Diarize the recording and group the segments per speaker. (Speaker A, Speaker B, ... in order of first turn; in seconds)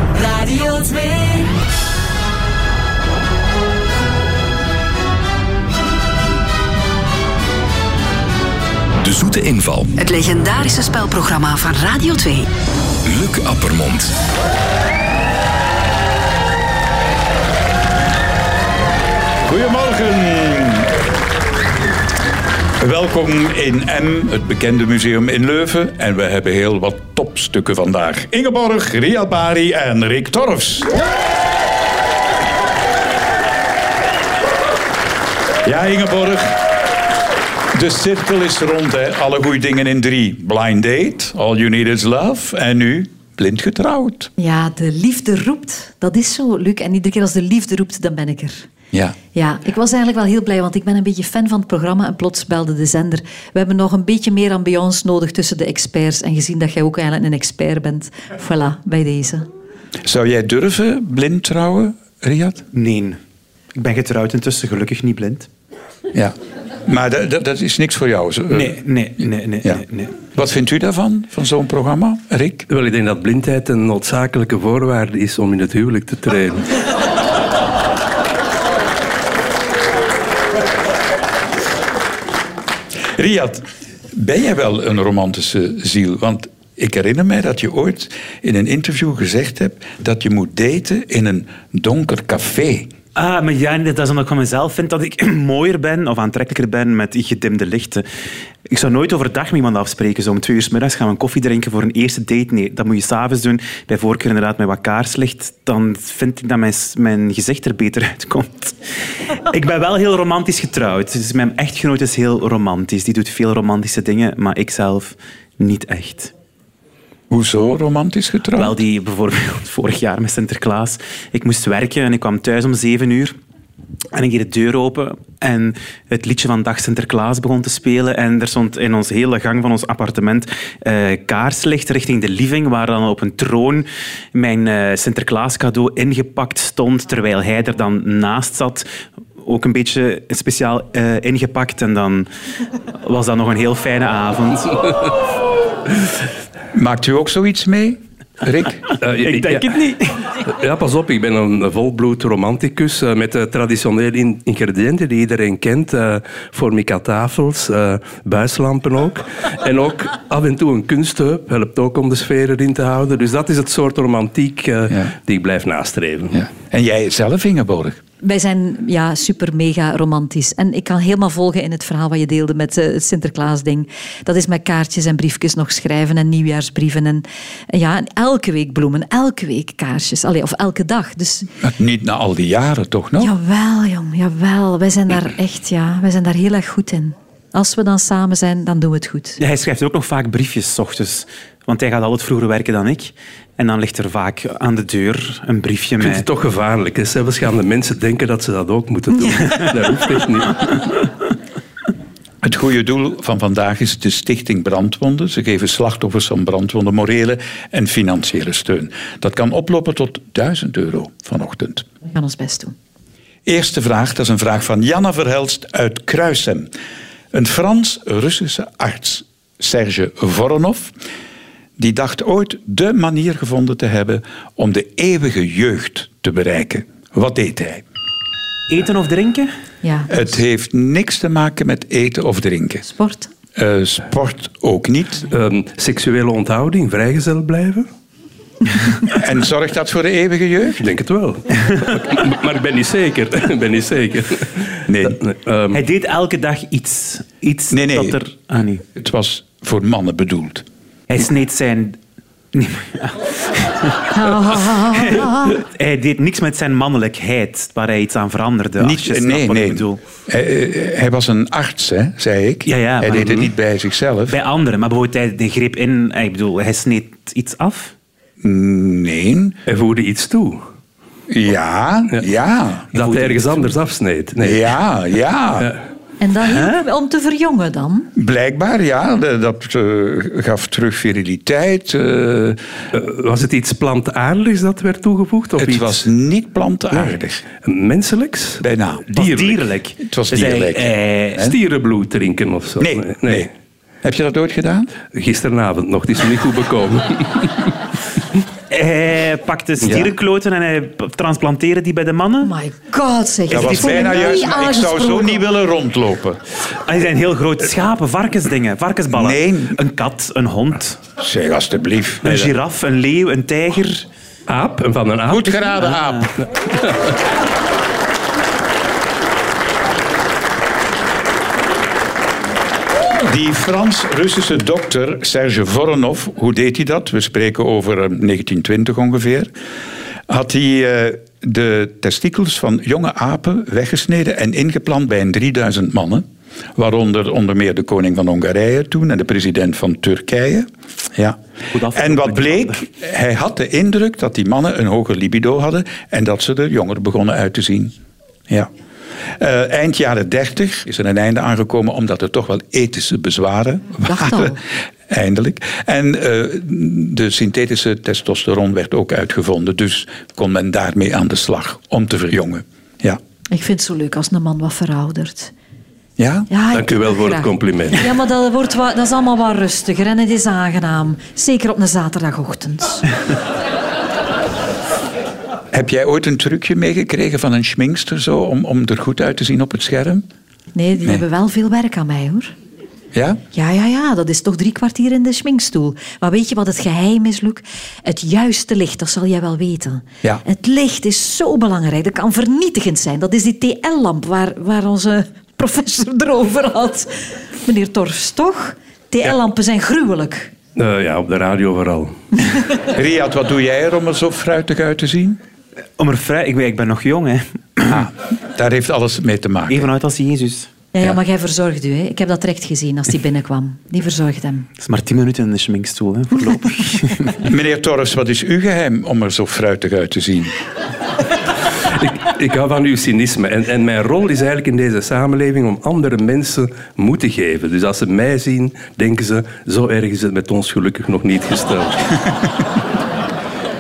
Speaker A: 0.1-0.7, 10.0-12.5
Speaker B: 9.0-9.9, 13.1-14.1
Speaker C: 19.5-20.9, 22.8-30.9, 35.6-36.6, 37.7-44.3, 60.0-62.6, 66.1-68.8, 70.3-72.7, 83.1-92.9, 117.3-118.8, 146.7-148.8, 166.3-168.0, 181.6-183.3, 202.4-211.8, 213.5-216.7, 217.3-220.9, 221.8-227.8, 230.1-232.8, 233.6-235.3, 239.2-240.8, 244.9-245.2, 247.7-248.2, 249.0-250.7, 258.8-264.4, 268.4-269.6, 271.3-272.9, 274.4-275.7, 278.1-282.6, 285.6-287.4, 288.6-289.4, 290.1-291.6, 292.8-293.5, 294.0-294.9, 299.8-300.1, 303.5-306.4, 309.1-309.8, 311.2-312.3, 315.3-316.3, 323.2-329.5, 330.3-341.4, 341.9-347.9, 349.4-363.2, 366.2-366.5, 375.7-380.2, 383.1-383.4, 402.9-405.4, 407.9-409.9, 417.4-420.6
Speaker D: 44.4-48.7, 49.4-59.5, 168.2-181.5, 183.2-189.4, 212.1-212.8, 229.8-230.1, 232.8-233.3, 254.1-255.6, 276.2-278.1, 302.4-305.4, 354.1-354.6, 363.5-365.5, 366.5-373.1, 380.7-382.5, 383.5-400.5, 410.9-414.7
Speaker E: 62.7-63.2, 63.8-65.5, 68.5-70.1, 93.2-98.0, 98.7-108.8, 109.5-116.3, 118.6-123.3, 124.1-138.9, 139.4-142.3, 143.0-144.9, 149.2-150.2, 189.4-196.2, 228.7-229.5, 245.7-248.8, 251.1-252.0, 252.5-254.1, 254.9-260.0, 262.7-263.5, 264.3-267.9, 273.0-273.7, 276.5-276.8, 289.1-291.4, 298.7-302.5, 303.5-304.3, 306.8-311.0, 312.2-314.1, 315.8-316.3, 341.7-342.8, 406.0-408.0, 409.7-410.7, 414.8-417.4
Speaker F: 72.7-76.7, 149.0-166.4, 196.0-200.9, 235.3-237.9, 240.8-245.8, 269.7-270.6, 272.9-274.7, 282.9-286.0, 287.6-288.6, 291.4-293.5, 295.1-297.7, 314.5-315.7, 366.7-368.1, 400.8-402.1, 422.0-432.1